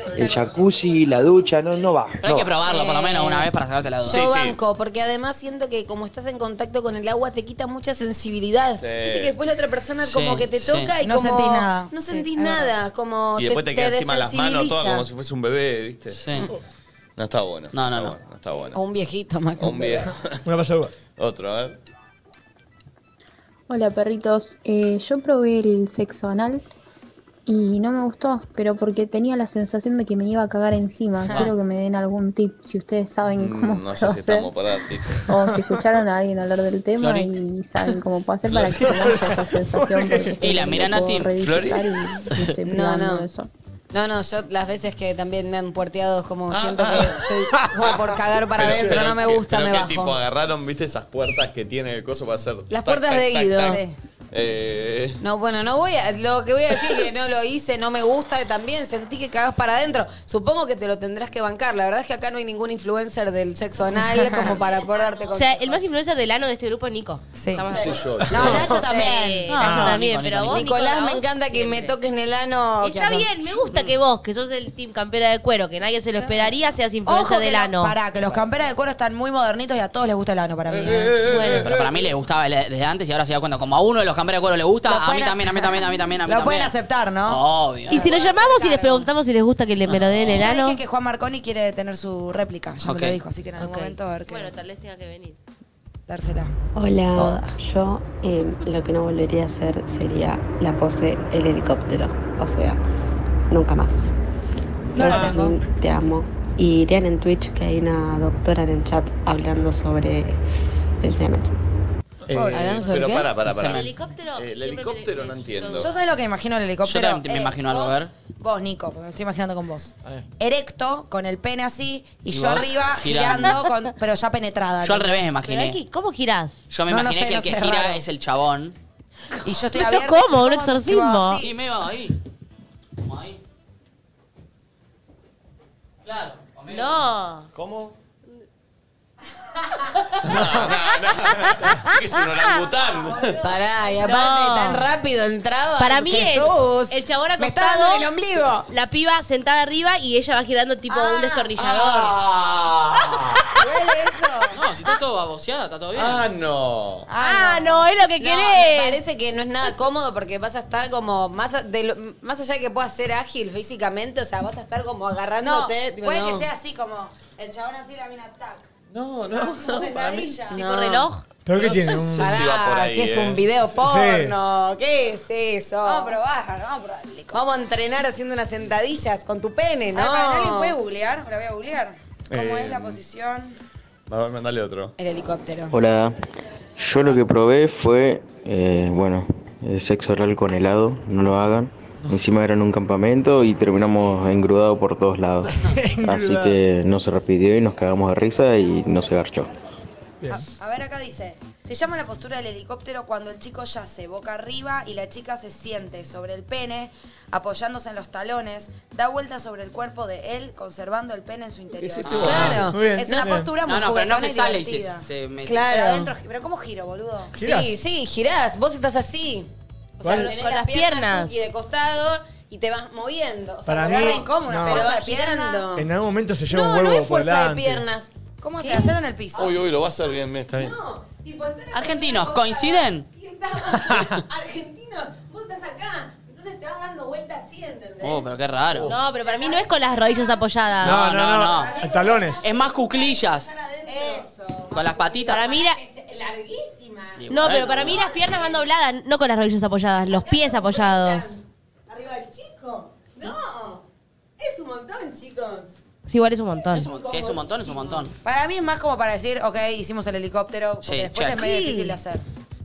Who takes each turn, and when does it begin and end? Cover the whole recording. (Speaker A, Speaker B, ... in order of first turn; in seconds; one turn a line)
Speaker A: 0.1-2.5
Speaker B: 2.2-4.2
Speaker C: 2.6-3.5
Speaker C: 4.0-15.1
Speaker D: 4.1-4.6
Speaker D: 8.8-9.4
Speaker B: 10.0-10.9
Speaker E: 11.0-12.8
Speaker D: 13.4-16.2
Speaker B: 16.1-16.5
Speaker D: 17.2-18.8
Speaker B: 17.7-18.1
Speaker C: 18.7-20.1
Speaker D: 19.6-20.4
Speaker F: 20.4-20.9
Speaker D: 21.2-21.8
Speaker G: 23.7-26.6
Speaker G: 27.5-34.5
Speaker D: 33.3-35.3
Speaker G: 35.3-43.5
Speaker B: 37.0-37.3
Speaker D: 38.5-38.9
Speaker F: 38.8-40.4
Speaker B: 40.4-41.4
Speaker D: 41.4-42.0
Speaker C: 42.7-43.3
Speaker C: 43.9-50.2
Speaker D: 46.5-47.3
Speaker D: 48.6-53.8
Speaker F: 48.6-49.0
Speaker C: 52.7-53.9
Speaker D: 54.3-55.2
Speaker C: 55.2-65.9
Speaker E: 63.9-64.6
Speaker H: 64.6-72.0
Speaker E: 67.3-69.5
Speaker D: 67.7-68.7
Speaker F: 68.3-68.5
Speaker C: 68.7-69.2
Speaker B: 69.5-70.7
Speaker F: 69.6-69.9
Speaker C: 70.5-73.3
Speaker H: 72.8-78.0
Speaker E: 76.2-76.5
Speaker E: 77.0-81.2
Speaker D: 80.7-81.6
Speaker H: 81.2-81.7
Speaker B: 81.3-86.7
Speaker E: 84.8-89.0
Speaker B: 87.3-88.2
Speaker H: 87.9-90.8
Speaker B: 89.9-90.4
Speaker E: 90.2-94.5
Speaker B: 92.8-93.2
Speaker H: 93.6-95.4
Speaker E: 96.1-96.5
Speaker I: 96.8-102.8
Speaker E: 97.1-97.5
Speaker I: 103.5-104.1
Speaker E: 105.0-105.6
Speaker I: 105.0-110.4
Speaker F: 105.0-105.5
Speaker I: 111.0-111.5
Speaker D: 112.3-115.9
Speaker F: 112.3-112.8
Speaker E: 112.3-112.9
Speaker H: 113.0-116.0
Speaker B: 113.4-113.9
Speaker E: 115.8-125.3
Speaker B: 116.8-118.1
Speaker B: 122.3-123.6
Speaker B: 124.8-125.8
Speaker H: 125.4-126.6
Speaker B: 126.7-128.8
Speaker E: 126.9-128.0
Speaker E: 129.4-131.6
Speaker H: 129.7-131.4
Speaker B: 131.4-132.2
Speaker B: 133.0-133.4
Speaker B: 136.1-137.1
Speaker H: 136.7-137.5
Speaker D: 137.6-138.0
Speaker D: 140.2-143.4
Speaker H: 141.4-142.6
Speaker E: 143.2-143.5
Speaker C: 143.4-147.8
Speaker H: 144.0-144.9
Speaker H: 145.8-148.1
Speaker E: 147.4-148.6
Speaker H: 148.7-152.2
Speaker E: 150.9-151.5
Speaker D: 151.7-153.4
Speaker E: 153.6-154.5
Speaker B: 154.5-156.2
Speaker D: 156.0-157.1
Speaker E: 157.1-157.9
Speaker H: 157.2-159.0
Speaker C: 158.2-166.5
Speaker E: 165.4-168.7
Speaker D: 168.9-170.4
Speaker E: 169.3-170.7
Speaker C: 170.5-176.2
Speaker H: 170.5-171.2
Speaker F: 171.4-172.4
Speaker D: 171.6-173.5
Speaker F: 173.8-174.4
Speaker E: 175.8-177.4
Speaker C: 177.3-180.8
Speaker E: 179.9-183.6
Speaker D: 182.3-183.0
Speaker D: 184.1-184.9
Speaker C: 185.0-185.8
Speaker J: 185.7-186.2
Speaker J: 186.8-199.5
Speaker F: 195.6-196.6
Speaker F: 200.2-200.5
Speaker E: 200.3-215.1
Speaker B: 212.0-212.6
Speaker F: 212.1-213.5
Speaker C: 212.2-213.3
Speaker B: 213.7-215.7
Speaker C: 215.5-216.1
Speaker E: 215.7-217.3
Speaker C: 217.3-225.9
Speaker F: 217.4-217.7
Speaker F: 220.0-220.3
Speaker H: 220.0-221.5
Speaker F: 223.7-224.9
Speaker E: 223.8-225.7
Speaker F: 225.8-227.8
Speaker C: 226.5-229.5
Speaker E: 228.4-229.6
Speaker D: 229.3-230.8
Speaker C: 230.5-238.3
Speaker B: 231.7-233.1
Speaker F: 233.9-234.2
Speaker B: 238.0-238.9
Speaker H: 238.8-241.1
Speaker C: 238.9-240.4
Speaker F: 240.8-242.4
Speaker B: 240.8-241.8
Speaker C: 241.4-248.7
Speaker B: 242.4-243.5
Speaker E: 243.9-244.3
Speaker B: 244.7-245.4
Speaker H: 245.3-245.8
Speaker B: 247.2-248.2
Speaker H: 247.3-251.4
Speaker C: 250.1-253.8
Speaker C: 254.4-255.8
Speaker H: 256.1-256.9
Speaker B: 256.7-258.1
Speaker C: 256.7-258.1
Speaker E: 258.2-262.2
Speaker B: 260.8-261.4
Speaker C: 261.3-262.0